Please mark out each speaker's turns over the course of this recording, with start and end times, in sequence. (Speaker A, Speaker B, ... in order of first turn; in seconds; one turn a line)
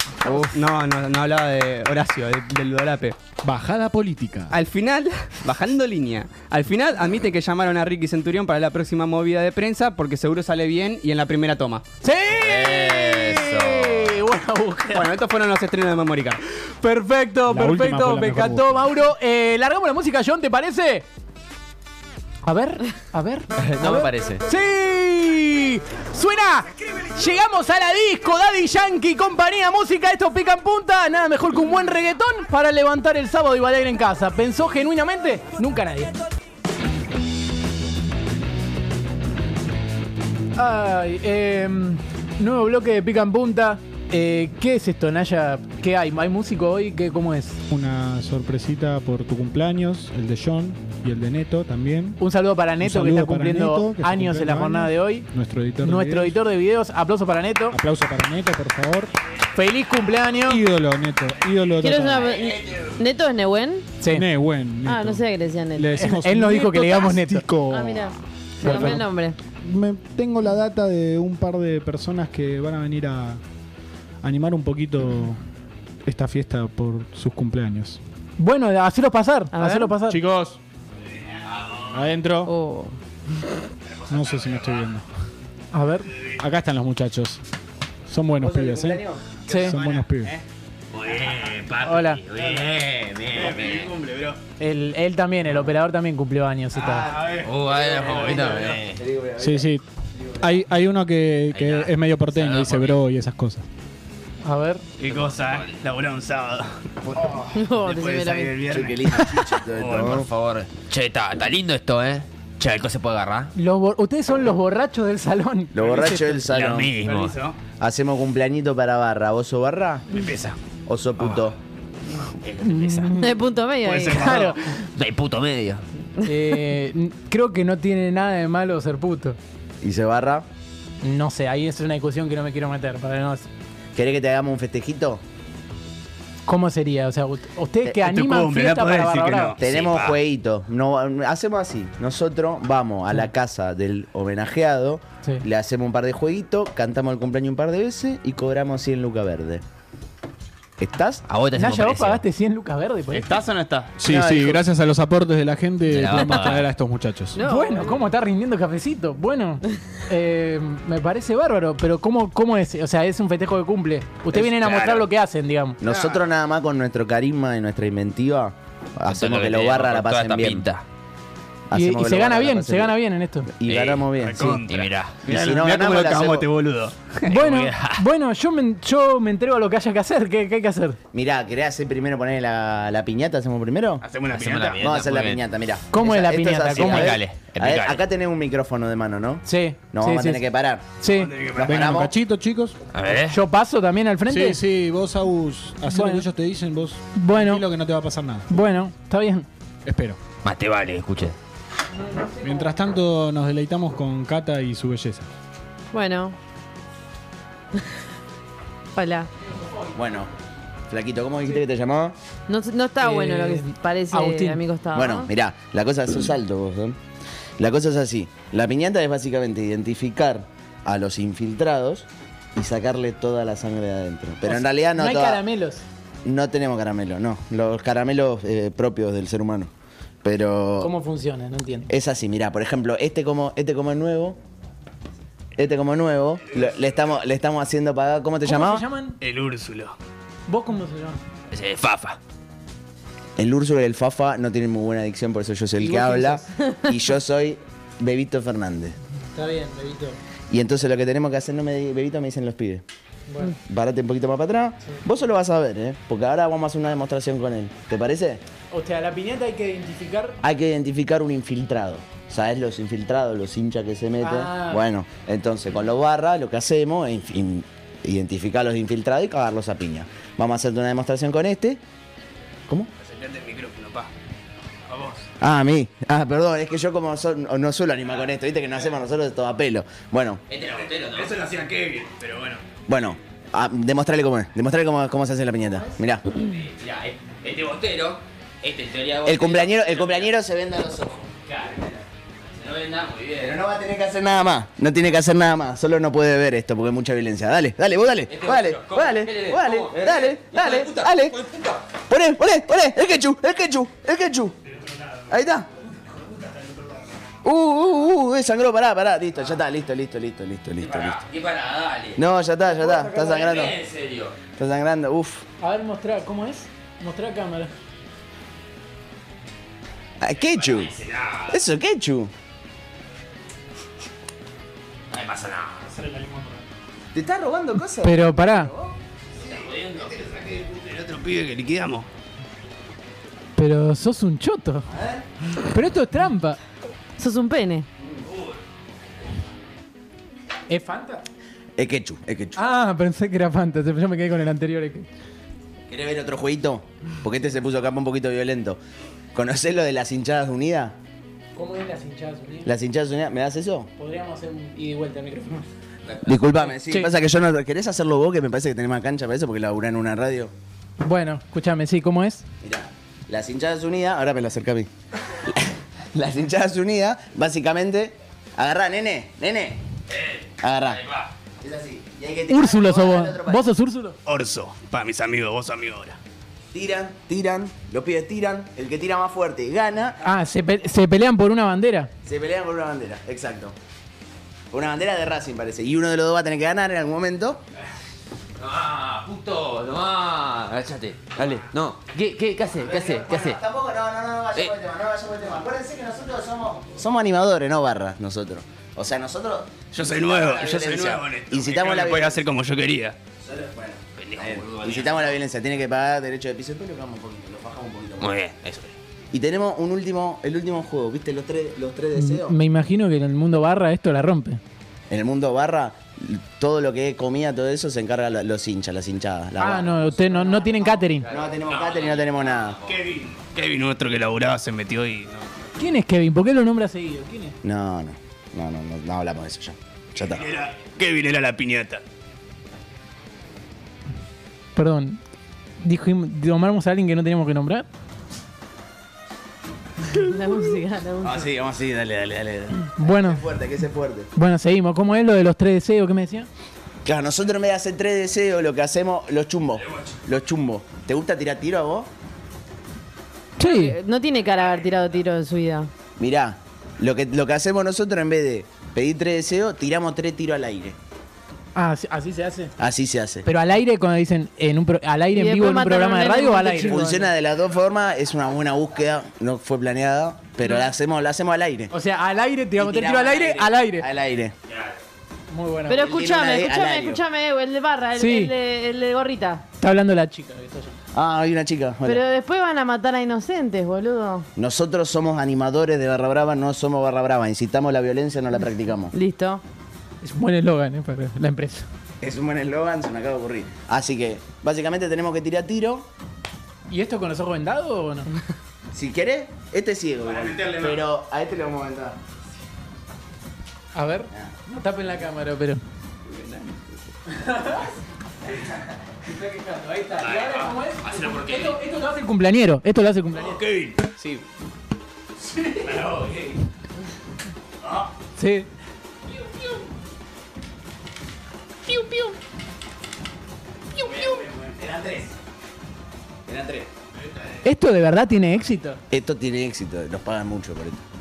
Speaker A: 0.2-3.2
Speaker B: 3.4-4.5
Speaker A: 4.5-11.8
Speaker C: 12.0-15.1
Speaker D: 12.4-14.2
Speaker A: 14.9-16.4
Speaker C: 16.8-21.1
Speaker B: 17.5-18.9
Speaker C: 22.4-36.1
Speaker D: 23.6-24.4
Speaker C: 40.6-47.6
Speaker B: 47.7-52.2
Speaker C: 52.2-55.3
Speaker B: 52.8-56.4
Speaker C: 55.8-57.8
Speaker B: 57.7-59.1
Speaker C: 59.5-60.6
Speaker B: 60.4-62.3
Speaker E: 61.8-63.9
Speaker C: 64.0-64.3
Speaker B: 64.1-65.2
Speaker E: 64.8-66.1
Speaker B: 65.8-69.1
Speaker C: 66.0-67.5
Speaker E: 67.7-69.4
Speaker C: 68.6-69.0
Speaker B: 69.6-73.4
Speaker B: 74.2-75.4
Speaker B: 76.0-78.0
Speaker C: 78.4-80.2
Speaker E: 79.5-79.9
Speaker B: 80.1-80.6
Speaker B: 81.9-82.5
Speaker E: 82.5-83.0
Speaker F: 84.1-84.7
Speaker B: 84.1-85.0
Speaker C: 85.7-86.1
Speaker B: 86.4-87.4
Speaker B: 88.1-90.3
Speaker G: 88.4-89.2
Speaker C: 89.5-89.8
Speaker F: 89.8-90.3
Speaker D: 91.0-93.9
Speaker F: 91.1-91.7
Speaker C: 91.8-92.2
Speaker F: 92.3-92.7
Speaker F: 93.3-94.4
Speaker C: 94.6-97.1
Speaker G: 96.9-100.5
Speaker F: 96.9-98.8
Speaker D: 97.4-99.0
Speaker B: 99.4-99.8
Speaker B: 100.4-103.7
Speaker D: 101.5-103.0
Speaker C: 104.5-104.8
Speaker F: 105.0-106.7
Speaker D: 105.0-105.8
Speaker G: 107.2-107.5
Speaker E: 107.5-108.7
Speaker F: 107.7-110.2
Speaker G: 108.7-110.3
Speaker D: 109.9-113.5
Speaker C: 113.6-116.3
Speaker G: 115.7-117.0
Speaker D: 116.5-117.4
Speaker F: 117.0-117.6
Speaker G: 117.8-120.1
Speaker F: 120.1-120.6
Speaker G: 120.9-121.5
Speaker D: 122.4-123.1
Speaker C: 122.7-123.3
Speaker E: 123.2-124.5
Speaker F: 123.8-124.5
Speaker C: 124.2-124.6
Speaker D: 125.0-125.8
Speaker C: 126.2-129.4
Speaker G: 129.8-130.5
Speaker C: 131.0-133.5
Speaker G: 133.9-135.2
Speaker C: 136.5-139.6
Speaker F: 138.1-140.2
Speaker G: 139.6-149.6
Speaker G: 150.8-151.2
Speaker D: 151.3-152.2
Speaker C: 151.6-153.2
Speaker A: 153.1-154.1
Speaker B: 154.0-157.4
Speaker G: 154.0-154.6
Speaker D: 155.9-156.7
Speaker E: 157.3-158.0
Speaker C: 157.4-165.8
Speaker F: 164.5-165.1
Speaker G: 165.8-170.7
Speaker F: 165.8-166.2
Speaker D: 169.1-170.8
Speaker G: 171.7-173.0
Speaker C: 171.7-173.5
Speaker G: 173.5-174.6
Speaker D: 173.7-175.2
Speaker F: 174.2-176.9
Speaker G: 175.3-176.5
Speaker D: 177.3-178.0
Speaker C: 177.3-181.0
Speaker G: 181.1-184.0
Speaker F: 184.0-185.0
Speaker D: 184.3-185.4
Speaker G: 184.8-190.9
Speaker C: 185.9-187.2
Speaker D: 186.7-188.0
Speaker C: 189.5-190.4
Speaker C: 191.0-191.3
Speaker F: 191.1-191.8
Speaker G: 191.5-192.1
Speaker B: 191.6-192.8
Speaker D: 192.9-193.4
Speaker C: 193.3-194.6
Speaker B: 194.3-198.5
Speaker C: 195.8-196.3
Speaker C: 197.2-197.7
Speaker C: 198.5-199.5
Speaker B: 199.9-200.2
Speaker D: 200.4-201.4
Speaker C: 202.2-202.7
Speaker B: 202.4-205.3
Speaker E: 205.9-206.4
Speaker E: 208.9-209.3
Speaker G: 209.9-210.3
Speaker G: 210.9-212.2
Speaker E: 212.5-215.3
Speaker C: 213.0-214.6
Speaker G: 214.9-217.0
Speaker G: 217.6-225.4
Speaker C: 224.5-225.8
Speaker G: 226.2-229.7
Speaker G: 230.2-230.9
Speaker C: 230.8-231.9
Speaker G: 231.9-234.4
Speaker G: 235.6-238.8
Speaker F: 236.5-237.1
Speaker C: 238.4-239.2
Speaker F: 239.2-240.0
Speaker C: 240.5-241.2
Speaker F: 241.5-242.2
Speaker G: 243.4-249.0
Speaker C: 245.8-246.5
Speaker C: 249.3-250.2
Speaker G: 250.5-252.8
Speaker C: 253.3-253.5
Speaker G: 253.7-258.4
Speaker C: 258.7-260.4
Speaker G: 260.4-271.8
Speaker C: 264.2-264.8
Speaker F: 273.0-274.1
Speaker F: 274.9-275.2
Speaker G: 275.4-280.4
Speaker D: 280.5-281.4
Speaker F: 280.6-282.6
Speaker G: 282.9-286.2
Speaker D: 286.3-290.3
Speaker G: 289.2-291.3
Speaker D: 291.5-293.6
Speaker G: 293.4-301.4
Speaker D: 298.3-301.8
Speaker G: 302.1-304.6
Speaker G: 305.3-305.7
Speaker F: 306.5-307.0
Speaker G: 307.4-311.3
Speaker D: 310.8-312.2
Speaker G: 312.1-313.8
Speaker C: 312.8-313.4
Speaker D: 313.1-314.4
Speaker G: 314.6-315.4
Speaker C: 315.6-317.7
Speaker G: 320.2-320.9
Speaker D: 320.4-321.6
Speaker G: 321.5-322.3
Speaker D: 325.1-325.9
Speaker B: 326.0-326.6
Speaker G: 327.1-329.0
Speaker C: 328.0-328.7
Speaker F: 329.4-329.7
Speaker D: 329.4-330.3
Speaker F: 330.4-332.1
Speaker C: 333.6-334.9
Speaker G: 334.9-335.3
Speaker C: 335.7-336.6
Speaker E: 337.2-337.9
Speaker C: 340.7-341.2
Speaker G: 341.8-342.6
Speaker C: 342.6-345.1
Speaker G: 345.9-348.8
Speaker G: 349.3-350.9
Speaker C: 351.6-352.7
Speaker G: 352.6-353.9
Speaker C: 354.0-355.7
Speaker G: 356.2-360.5
Speaker C: 356.6-357.1
Speaker C: 361.0-362.4
Speaker G: 362.6-364.9
Speaker G: 365.4-369.8
Speaker D: 370.2-370.4
Speaker G: 370.6-371.0
Speaker D: 371.0-371.3
Speaker G: 371.6-373.7
Speaker C: 372.5-374.2
Speaker F: 374.3-376.2
Speaker G: 376.7-380.2
Speaker C: 380.2-382.1
Speaker G: 382.2-383.8
Speaker G: 384.7-387.6
Speaker D: 388.6-393.6
Speaker G: 392.7-402.4
Speaker F: 399.9-403.2
Speaker G: 403.4-408.3
Speaker D: 404.2-405.3
Speaker D: 408.2-408.9
Speaker G: 409.3-412.6
Speaker C: 412.1-414.6
Speaker G: 415.1-422.8
Speaker C: 419.6-421.3
Speaker D: 421.3-422.9
Speaker F: 422.9-425.5
Speaker C: 425.8-427.6
Speaker G: 427.6-430.5
Speaker F: 430.2-432.0
Speaker C: 434.8-435.2
Speaker C: 435.8-437.9
Speaker E: 440.1-441.5
Speaker G: 441.2-444.3
Speaker C: 443.0-443.4
Speaker C: 444.4-446.5
Speaker G: 447.1-452.1
Speaker C: 453.6-454.0
Speaker E: 453.6-455.9
Speaker G: 456.2-461.0
Speaker C: 461.8-462.7
Speaker G: 462.8-463.5
Speaker C: 463.5-467.2
Speaker E: 465.3-467.3
Speaker G: 466.9-471.9
Speaker C: 471.9-474.1
Speaker G: 472.8-474.6
Speaker C: 475.5-476.1
Speaker E: 475.9-479.6
Speaker G: 475.9-477.2
Speaker C: 478.2-478.5
Speaker C: 479.8-480.9
Speaker G: 481.1-482.2
Speaker E: 482.1-484.5
Speaker G: 484.6-489.1
Speaker E: 489.1-489.6
Speaker C: 490.2-491.9
Speaker G: 492.2-496.1
Speaker C: 496.9-498.3
Speaker G: 498.9-502.2
Speaker F: 500.2-501.0
Speaker C: 503.9-505.8
Speaker C: 507.3-507.9
Speaker C: 509.3-513.6
Speaker D: 510.2-511.7
Speaker F: 513.4-514.4
Speaker F: 515.8-516.5
Speaker C: 518.4-518.7
Speaker C: 521.9-522.4
Speaker C: 524.0-524.4
Speaker F: 524.5-525.1
Speaker G: 524.8-525.2
Speaker G: 526.5-526.9
Speaker C: 527.6-529.0
Speaker G: 529.1-531.0